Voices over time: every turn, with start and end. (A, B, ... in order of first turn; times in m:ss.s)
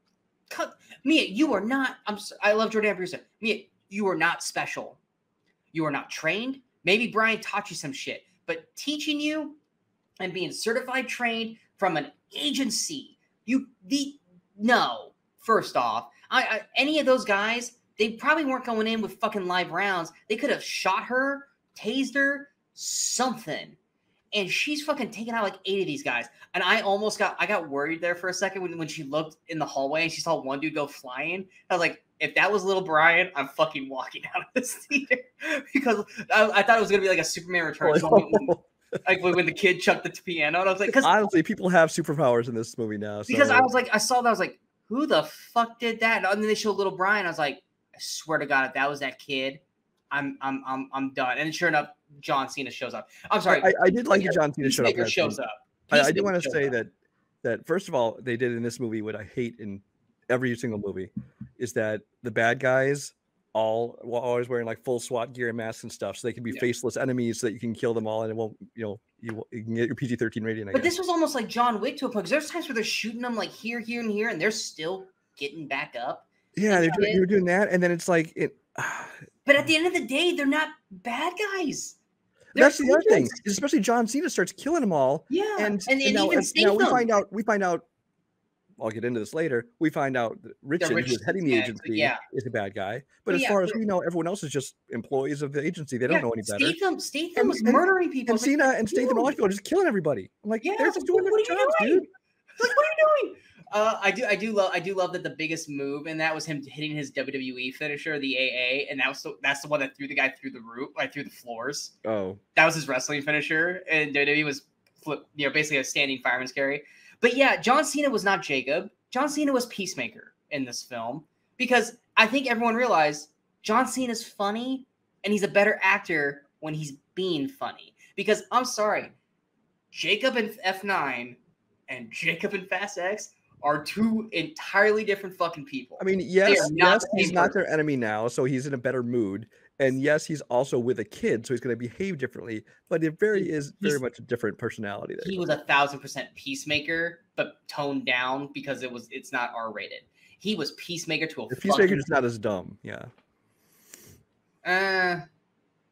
0:00.5-0:05.0 A
0:05.7-0:09.6 A
0:10.2-0:23.8 A
0:24.3-0:38.5 A
0:37.8-0:38.7 B
0:39.0-0:41.1 A
0:40.9-0:43.7 B
0:43.3-0:56.7 A
0:53.5-0:56.9 B
0:57.4-1:10.9 B
1:10.7-1:17.2 A
1:16.6-1:19.2 B
1:19.4-1:22.0 A
1:22.5-1:23.4 A
1:22.6-1:27.9 B
1:25.3-1:27.1 A
1:28.8-1:36.8 B
1:30.8-1:32.2 A
1:33.3-1:33.8 A
1:36.1-1:39.3 A
1:37.4-1:42.1 B
1:40.6-1:42.1 A
1:42.6-1:52.0 A
1:52.0-1:52.4 B
1:52.6-2:09.1 A
2:09.9-2:17.6 A
2:16.0-2:25.4 B
2:23.3-2:24.0 A
2:25.2-2:32.1 A
2:31.5-2:33.1 B
2:34.6-2:35.2 A